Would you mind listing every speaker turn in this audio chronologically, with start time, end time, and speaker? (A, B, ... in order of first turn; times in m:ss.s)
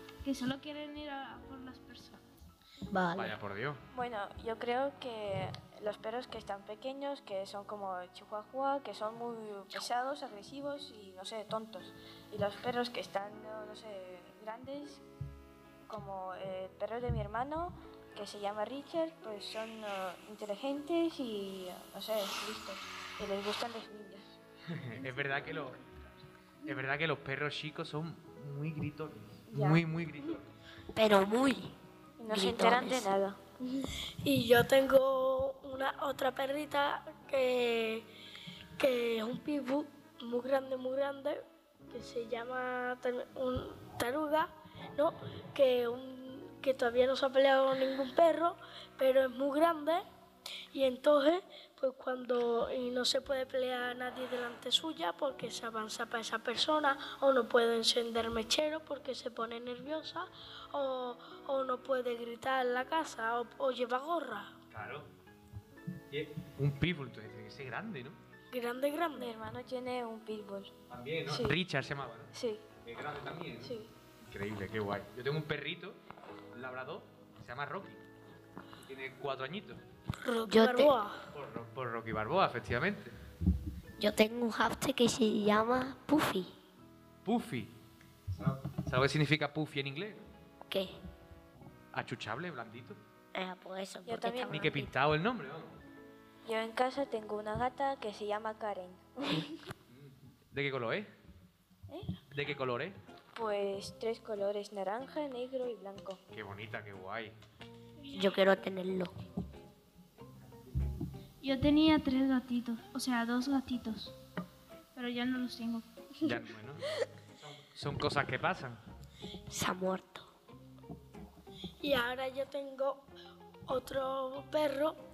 0:00.2-0:02.4 A
0:02.9-0:03.3 B
0:03.2-0:03.8 C
0:03.9-0:15.0 D
0:15.9-0:24.4 D
0:24.7-0:25.8 C
0:26.6-0:30.5 C
0:29.5-0:29.8 D
0:30.9-0:31.7 B
0:32.2-0:33.9 D
0:32.3-0:33.1 B
0:34.2-0:38.1 E
0:38.8-0:50.0 E
0:50.7-1:04.5 E
1:04.7-1:05.1 C
1:06.1-1:08.2 C
1:08.5-1:09.3 E
1:09.2-1:10.7 D
1:10.9-1:12.3 C
1:11.3-1:11.6 D
1:12.3-1:12.6 D
1:12.8-1:16.0 C
1:13.6-1:13.9 D
1:16.5-1:18.0 C
1:18.8-1:19.8 C
1:20.2-1:21.2 E
1:20.4-1:20.9 B
1:21.3-1:23.1 C
1:24.0-1:26.5 B
1:27.2-1:27.7 C
1:28.4-1:30.2 C
1:30.7-1:30.9 B
1:31.9-1:33.0 C
1:33.3-1:34.9 B
1:34.0-1:34.7 D
1:34.5-1:35.7 C
1:36.4-1:39.6 D
1:39.9-1:41.1 C
1:41.9-1:42.2 D
1:42.3-1:43.0 C
1:43.3-1:46.2 D
1:46.3-1:47.3 C
1:48.0-1:48.4 E
1:48.1-1:49.1 B
1:51.4-1:54.1 A
1:54.9-1:55.8 A
1:56.2-1:56.8 C
1:57.4-1:58.8 C
1:59.5-2:00.3 B
2:01.8-2:03.1 E
2:03.7-2:05.0 E